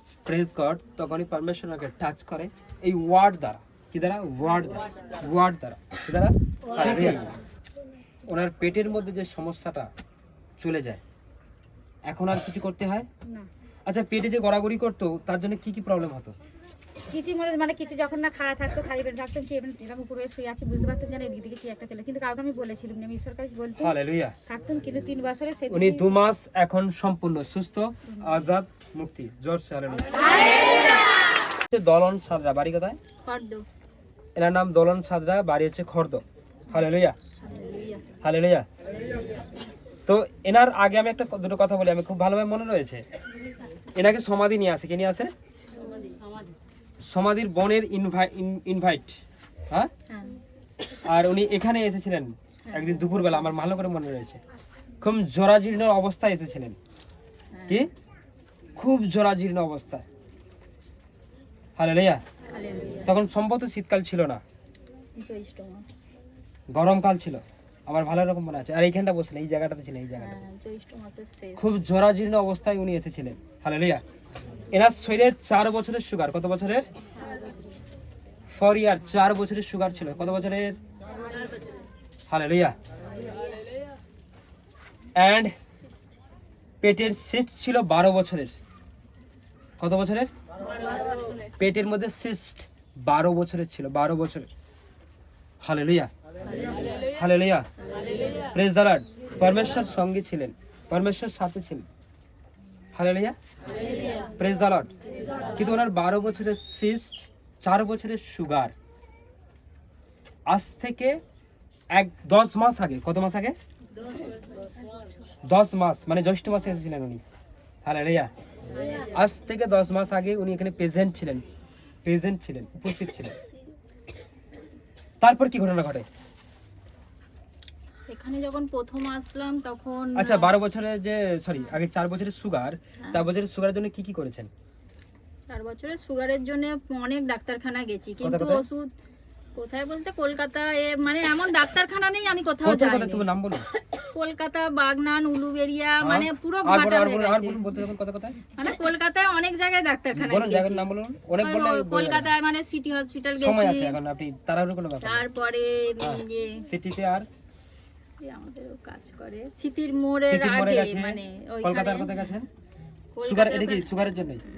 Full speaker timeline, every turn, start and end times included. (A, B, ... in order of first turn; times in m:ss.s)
0:00.2-0:07.4 A
0:08.3-0:09.9 A
0:10.6-0:11.0 A
0:12.0-0:13.1 A
0:13.8-0:16.3 A
0:17.1-0:23.9 B
0:23.8-0:24.3 A
0:24.5-0:26.1 B
0:25.7-0:30.1 A
0:31.7-0:33.0 A
0:33.2-0:33.6 C
0:34.4-0:37.2 A
0:37.4-0:38.0 C
0:38.2-0:38.6 A
0:40.0-0:43.0 A
0:44.0-0:45.3 A
0:47.0-0:49.2 A
0:51.1-0:54.4 A
0:52.6-0:53.0 C
0:55.0-0:56.8 A
0:57.5-0:57.8 C
0:58.8-1:00.0 A
1:01.8-1:02.2 A
1:02.5-1:03.1 C
1:03.0-1:04.4 A
1:05.2-1:06.1 C
1:06.7-1:10.4 A
1:10.2-1:11.6 C
1:11.6-1:14.0 A
1:14.7-1:16.8 A
1:18.5-1:20.8 A
1:22.3-1:22.7 A
1:25.1-1:25.5 A
1:26.8-1:28.5 A
1:29.8-1:30.3 A
1:31.6-1:34.5 A
1:35.6-1:36.1 A
1:37.1-1:37.7 A
1:38.5-1:41.8 A
1:42.9-1:43.4 A
1:44.4-1:44.9 A
1:45.5-1:48.7 A
1:50.5-1:51.2 A
1:51.9-1:53.6 A
1:55.4-1:57.2 A
1:57.8-1:58.3 A
1:59.1-2:01.4 A
2:02.0-2:03.4 A
2:05.2-2:06.0 A
2:08.1-2:10.5 C
2:10.1-2:14.5 A
2:15.5-2:18.9 C
2:18.2-2:18.6 A
2:19.5-2:23.2 C
2:22.6-2:23.6 A
2:24.1-2:27.6 C
2:26.0-2:28.4 A
2:28.6-2:30.8 C
2:30.1-2:32.3 A
2:31.4-2:34.0 C
2:33.4-2:35.2 A
2:35.0-2:36.6 C
2:36.0-2:37.3 A
2:38.2-2:42.1 C
2:40.2-2:42.5 A
2:43.1-2:44.0 C
2:43.2-2:44.4 A